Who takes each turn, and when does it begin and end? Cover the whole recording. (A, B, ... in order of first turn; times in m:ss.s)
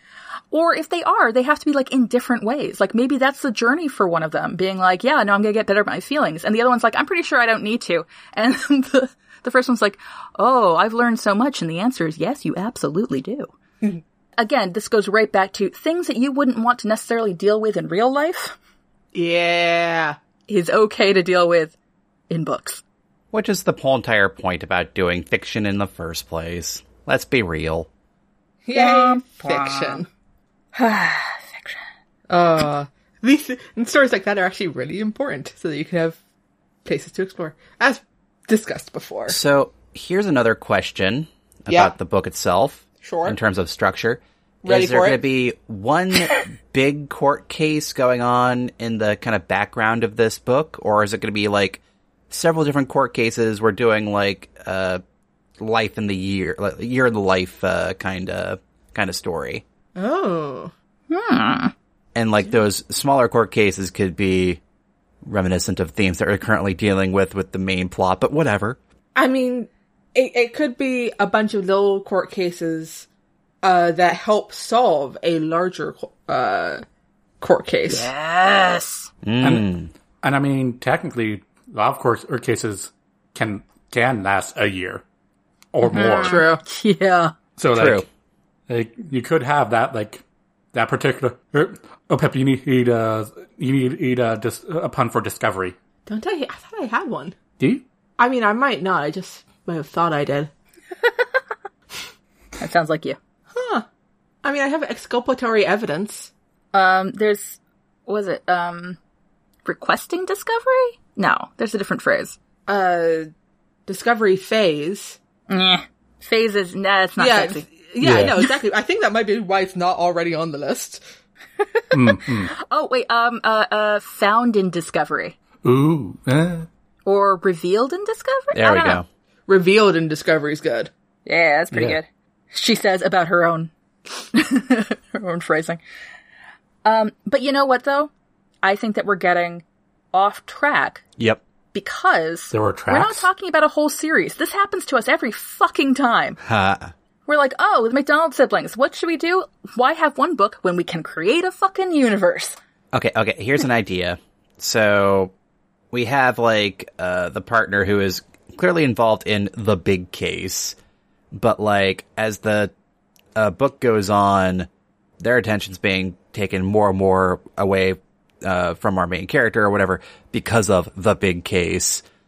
0:00.5-0:13.5 A
0:14.4-0:18.6 A
0:19.1-0:20.2 B
0:20.5-0:21.8 A
0:22.3-0:22.8 A
0:23.3-0:27.9 C
0:28.6-0:30.1 B
0:28.7-0:30.0 A
0:30.7-0:31.8 A
0:32.3-0:36.2 B
0:36.8-0:39.4 B
0:39.3-0:55.0 C
0:43.0-0:43.4 B
0:44.6-0:45.2 B
0:55.6-0:59.6 C
1:00.0-1:00.7 B
1:01.1-1:01.7 A
1:02.2-1:04.6 C
1:05.2-1:08.8 C
1:09.2-1:13.1 B
1:13.6-1:16.8 B
1:17.4-1:18.1 B
1:17.9-1:19.1 A
1:19.2-1:19.9 C
1:19.4-1:25.0 D
1:25.7-1:26.4 D
1:25.9-1:27.3 A
1:26.2-1:26.6 B
1:27.6-1:28.1 D
1:27.7-1:28.0 C
1:28.7-1:35.8 D
1:36.1-1:37.4 B
1:37.6-1:37.8 D
1:38.2-1:40.5 B
1:42.6-1:43.2 A
1:43.5-1:43.8 B
1:44.4-1:46.3 B
1:46.7-1:49.0 A
1:49.6-1:52.4 A
1:52.7-1:53.3 B
1:53.9-1:55.2 B
1:55.5-1:57.7 A
1:57.2-2:01.0 B
1:58.0-1:58.4 D
2:01.6-2:02.0 A
2:01.9-2:02.5 D
2:02.6-2:05.4 A
2:05.6-2:06.7 D
2:07.1-2:09.0 A
2:08.5-2:09.0 C
2:09.5-2:10.9 B
2:11.3-2:15.8 A
2:11.7-2:12.0 D
2:16.8-2:18.1 A
2:18.6-2:21.0 A
2:21.7-2:26.4 A
2:22.5-2:23.3 D
2:26.4-2:26.9 C
2:27.3-2:32.6 A
2:32.9-2:35.3 C
2:35.9-2:40.8 C
2:41.3-2:42.7 C
2:43.4-2:44.7 C
2:45.2-2:52.0 C